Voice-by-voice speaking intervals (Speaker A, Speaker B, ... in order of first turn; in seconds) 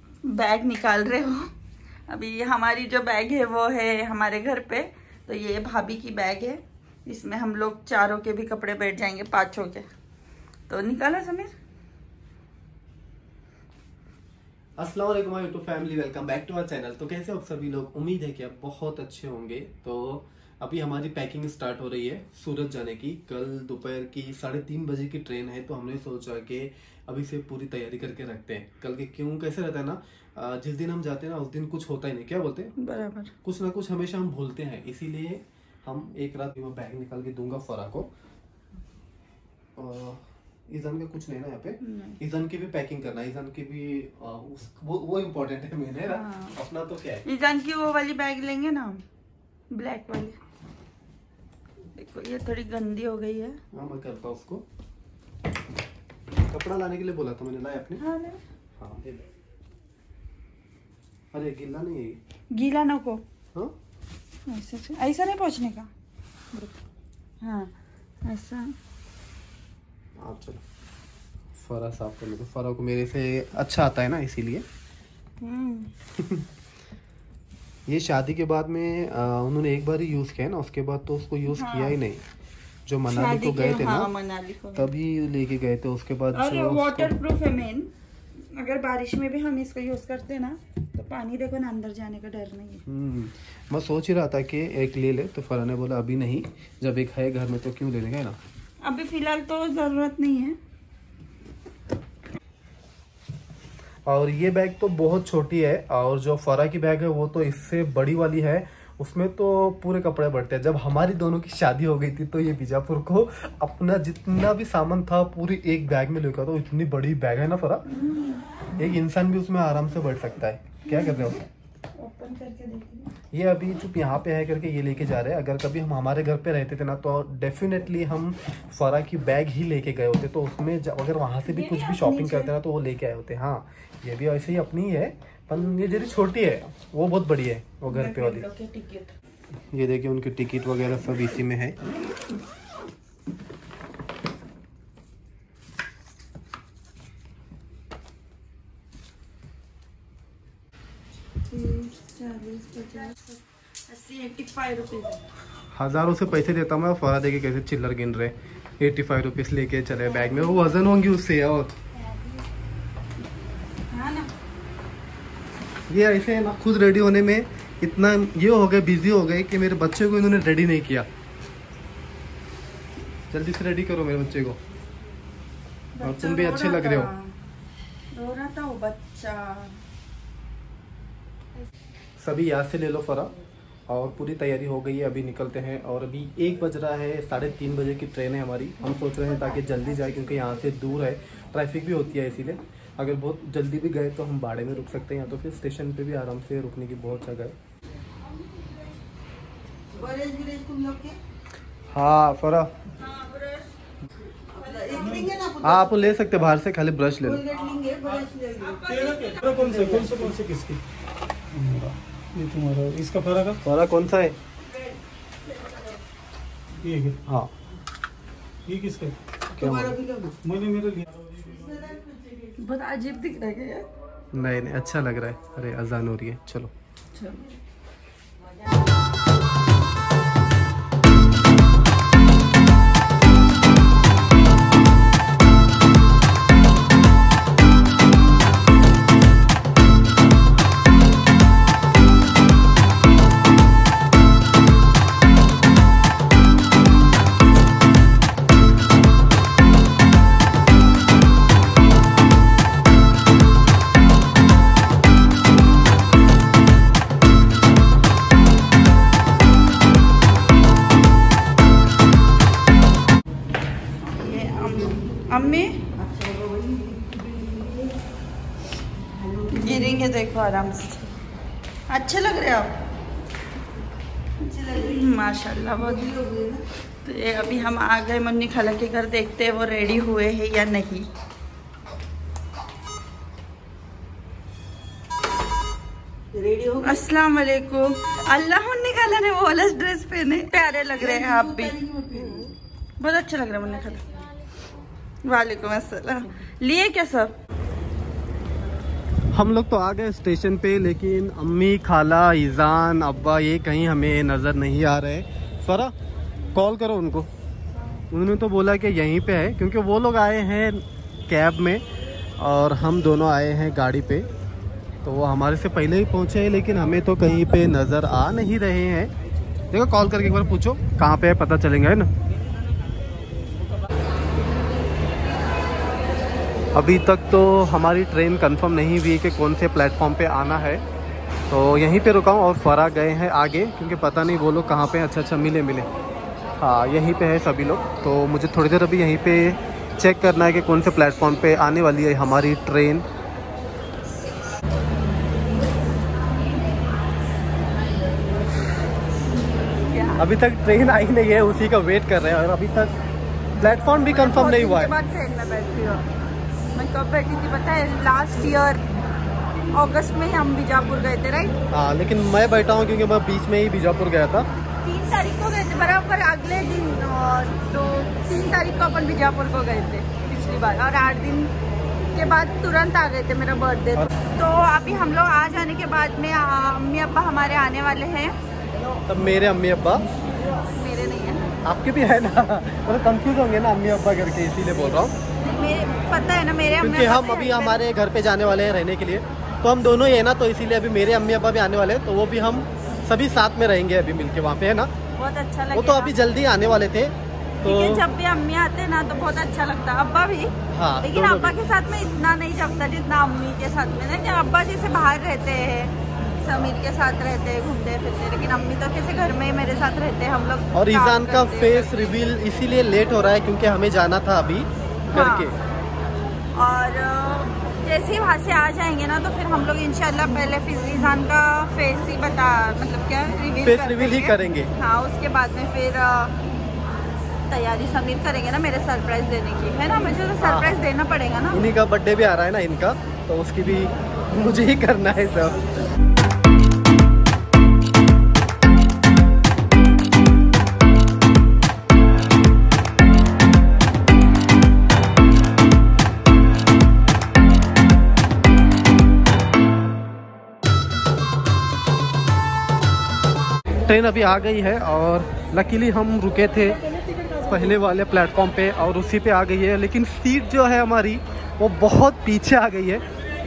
Speaker A: 0.2-1.5, 2.1-9.9, 10.7-11.5, 32.8-33.3, 41.8-42.2, 46.1-46.5, 47.2-49.0, 49.7-50.4, 51.9-53.6, 58.0-58.4, 62.5-63.2, 64.5-65.9, 67.4-67.7, 68.2-68.7, 75.4-75.9, 81.5-82.0, 83.1-84.9, 86.3-92.8, 98.8-100.6, 117.9-118.4, 120.8-121.4, 122.0-123.1, 131.4-132.5, 137.9-139.1, 151.5-155.2, 160.1-160.8, 162.0-162.3, 163.9-164.3, 175.9-177.3, 178.1-179.8, 199.9-201.1, 203.0-203.7, 204.5-205.6, 207.5-210.1, 221.5-223.9, 227.1-227.4, 264.0-266.0, 269.4-271.1, 271.9-272.8, 274.4-276.4, 277.0-281.1, 286.6-292.4, 293.0-294.1, 295.2-297.4, 349.8-350.2, 354.0-356.0, 356.7-358.8, 359.7-361.6, 364.8-371.5, 372.1-378.3, 380.7-381.5, 385.4-387.8, 395.1-396.1, 397.6-412.1, 415.1-415.5, 416.5-426.3, 427.5-431.6
Speaker B: 14.8-32.7, 33.4-38.1, 39.8-47.2, 53.7-54.6, 56.5-58.0, 58.8-59.3, 61.3-62.2, 70.2-70.6, 71.5-74.6, 76.2-76.5, 77.8-82.2, 82.8-84.1, 84.7-87.1, 92.9-98.4, 104.0-117.8, 118.8-121.4, 123.3-138.4, 139.7-141.8, 155.7-161.7, 165.9-171.1, 173.3-174.6, 176.0-177.1, 182.2-183.3, 183.9-197.6, 201.9-202.7, 205.6-207.4, 213.6-214.4, 217.2-217.5, 219.6-220.0, 224.3-226.7, 299.3-305.9, 306.5-307.3, 308.1-311.8, 312.4-314.3, 315.0-319.1, 319.7-322.1, 326.7-330.8, 331.5-335.9, 336.6-343.1, 350.2-352.9, 353.6-355.0, 361.7-364.5, 379.1-380.0, 381.6-385.1, 386.8-394.9, 395.7-398.1, 400.7-401.6, 410.7-415.6, 423.6-424.7, 430.4-430.8, 431.5-435.7, 453.8-456.8, 457.4-463.0
Speaker C: 205.0-205.3, 208.7-210.8, 211.5-213.6, 216.8-217.2, 218.6-221.2